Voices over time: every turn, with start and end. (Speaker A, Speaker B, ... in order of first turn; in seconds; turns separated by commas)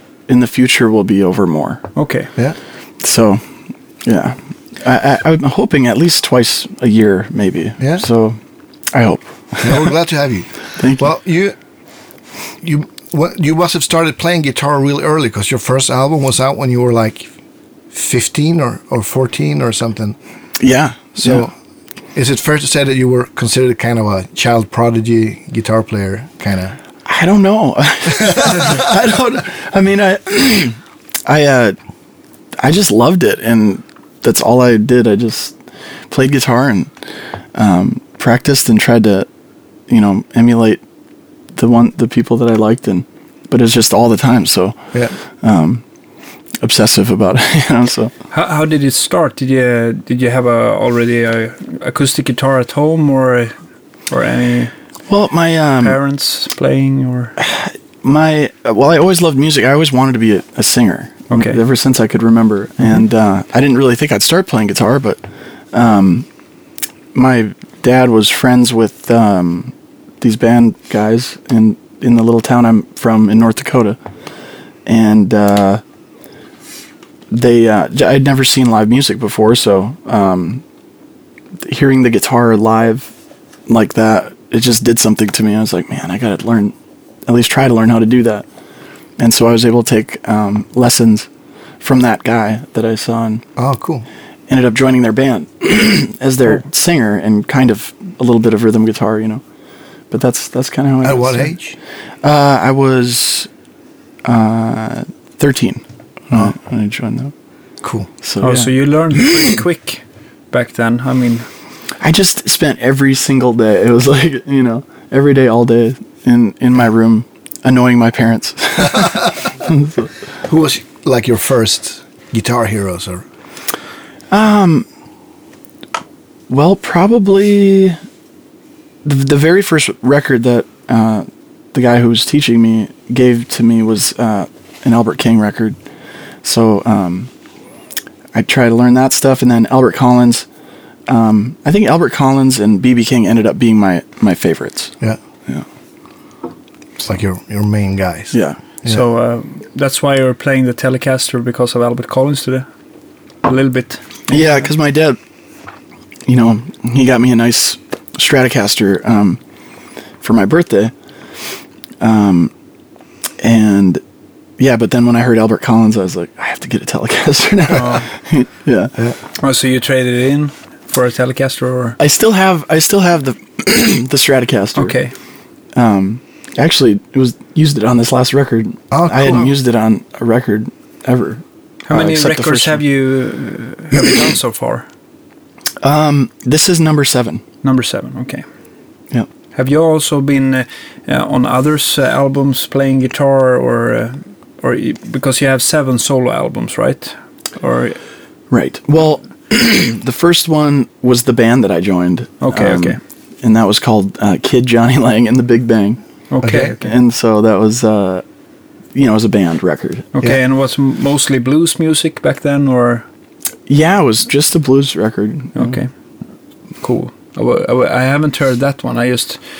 Speaker A: 0.3-1.8, Speaker B: 1.9-2.3, Speaker A: 3.0-3.4, Speaker A: 4.0-8.4, Speaker C: 7.8-8.0, Speaker A: 8.9-9.9, Speaker C: 9.6-11.6, Speaker A: 10.8-11.1, Speaker C: 12.6-17.3, Speaker C: 17.9-20.2, Speaker A: 20.6-21.4, Speaker C: 21.2-21.5, Speaker C: 22.1-26.8, Speaker A: 27.0-31.8, Speaker C: 28.1-28.9, Speaker A: 32.6-35.5, Speaker A: 36.1-36.9, Speaker A: 37.5-39.3, Speaker A: 39.9-40.8, Speaker A: 41.5-45.8, Speaker A: 46.6-48.1, Speaker B: 48.3-53.5, Speaker B: 54.1-54.7, Speaker A: 55.1-56.0, Speaker B: 55.8-57.3, Speaker A: 57.4-65.2, Speaker B: 61.3-61.6, Speaker A: 65.7-66.3, Speaker A: 67.1-74.0, Speaker A: 74.8-75.8, Speaker A: 77.3-80.6, Speaker A: 81.6-83.1, Speaker A: 83.7-86.7, Speaker A: 87.3-88.4, Speaker A: 89.2-91.3, Speaker A: 91.8-93.4, Speaker C: 93.5-94.0, Speaker A: 94.5-99.4, Speaker A: 100.1-101.5, Speaker C: 101.0-101.7, Speaker A: 102.2-103.5, Speaker A: 104.2-107.3, Speaker C: 107.8-108.1, Speaker A: 108.2-108.7, Speaker B: 108.4-111.5, Speaker A: 112.0-120.1, Speaker C: 118.9-119.3, Speaker C: 120.4-123.2, Speaker A: 124.3-124.8, Speaker A: 126.5-128.0, Speaker A: 129.0-135.8, Speaker A: 136.4-137.3, Speaker A: 138.3-140.4, Speaker A: 141.1-144.9, Speaker C: 147.0-149.0, Speaker A: 148.3-148.6, Speaker B: 148.8-152.7, Speaker B: 153.4-154.7, Speaker A: 154.3-155.2, Speaker A: 156.2-159.4, Speaker A: 160.2-160.9, Speaker A: 162.0-162.5, Speaker A: 163.4-164.0, Speaker A: 164.6-168.9, Speaker B: 167.7-168.1, Speaker B: 169.4-172.0, Speaker A: 172.0-174.9, Speaker B: 174.8-175.1, Speaker A: 175.7-182.8, Speaker C: 178.9-179.5, Speaker B: 181.9-184.8, Speaker A: 185.8-187.4, Speaker B: 187.6-188.4, Speaker B: 189.5-198.0, Speaker A: 198.5-206.0, Speaker B: 202.4-203.0, Speaker B: 206.3-206.9, Speaker C: 206.4-206.7, Speaker A: 206.5-208.2, Speaker A: 208.9-210.1, Speaker B: 210.1-213.1, Speaker A: 213.7-215.8, Speaker B: 215.5-215.9, Speaker B: 216.8-219.4